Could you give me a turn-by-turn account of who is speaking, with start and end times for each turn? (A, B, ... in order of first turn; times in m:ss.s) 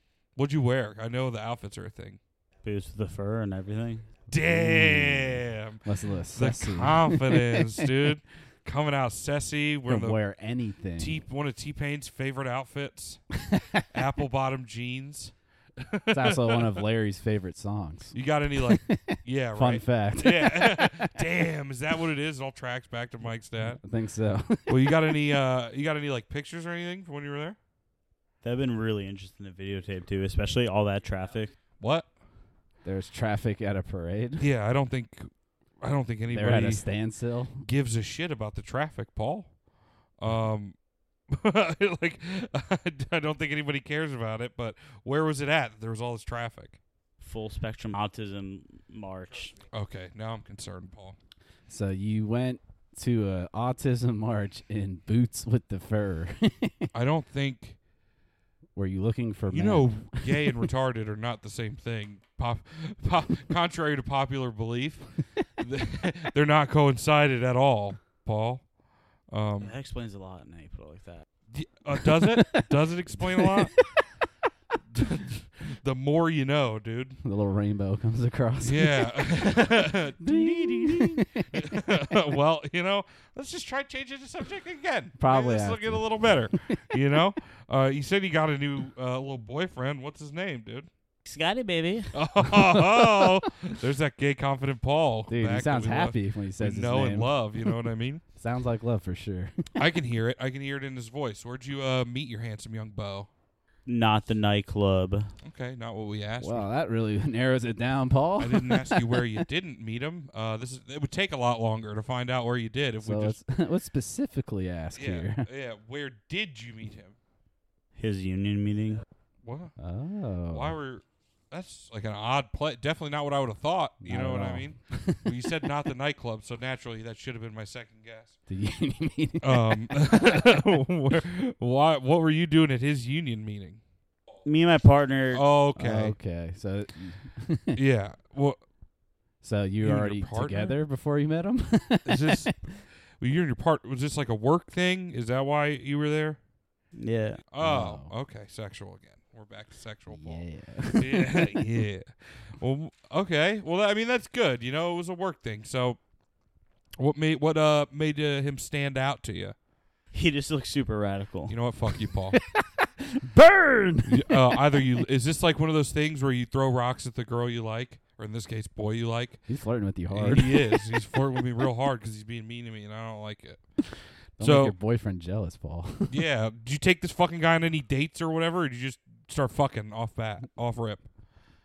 0:00.3-0:02.2 A
0:02.6-0:04.0 B
0:04.3-0:05.8 A
0:04.3-0:08.1 C
0:06.3-0:10.2 A
0:09.9-0:11.2 C
0:11.0-0:13.2 A
0:13.5-0:13.8 C
0:13.9-0:16.8 A
0:16.1-0:21.2 C
0:18.1-0:23.8 A
0:23.6-0:25.2 C
0:24.7-0:27.6 A
0:28.4-0:31.5 B
0:31.8-0:32.1 A
0:32.8-0:34.4 C
0:34.4-0:36.9 A
0:36.3-0:37.6 C
0:37.6-0:39.6 A
0:40.2-0:40.7 A
0:41.3-0:46.8 A
0:47.2-0:49.5 B
0:49.7-0:51.2 A
0:51.7-0:56.9 C
0:56.9-0:57.8 A
0:58.7-1:00.7 C
0:59.5-1:08.7 A
1:09.3-1:09.7 A
1:09.6-1:11.2 B
1:11.5-1:13.8 A
1:12.0-1:12.6 C
1:13.1-1:14.1 C
1:14.9-1:17.2 A
1:17.2-1:21.8 C
1:18.6-1:30.9 A
1:25.2-1:27.2 C
1:31.2-1:32.1 B
1:32.1-1:38.2 A
1:32.4-1:33.4 C
1:35.3-1:37.7 C
1:38.4-1:39.7 C
1:39.8-1:43.3 A
1:43.8-1:45.3 B
1:45.4-1:46.7 A
1:46.4-1:49.2 C
1:48.4-1:53.4 A
1:53.0-1:55.5 C
1:54.9-1:57.2 A
1:58.0-1:59.0 B
1:59.4-1:59.8 A
1:59.8-2:00.8 C
2:00.5-2:08.4 A
2:04.0-2:05.5 C
2:08.5-2:10.6 C
2:09.4-2:13.8 A
2:14.4-2:15.4 B
2:15.3-2:16.2 A
2:15.8-2:17.8 C
2:17.7-2:18.6 A
2:19.4-2:22.6 C
2:19.8-2:20.8 A
2:22.0-2:26.4 A
2:26.9-2:27.4 B
2:27.5-2:36.0 A
2:27.6-2:28.1 C
2:30.1-2:31.7 C
2:37.0-2:39.5 A
2:40.1-2:41.5 B
2:41.5-2:42.4 A
2:42.3-2:44.9 C
2:44.0-2:49.4 A
2:49.5-2:51.2 C
2:50.1-2:54.7 A
2:54.4-2:56.2 C
2:56.1-3:01.0 A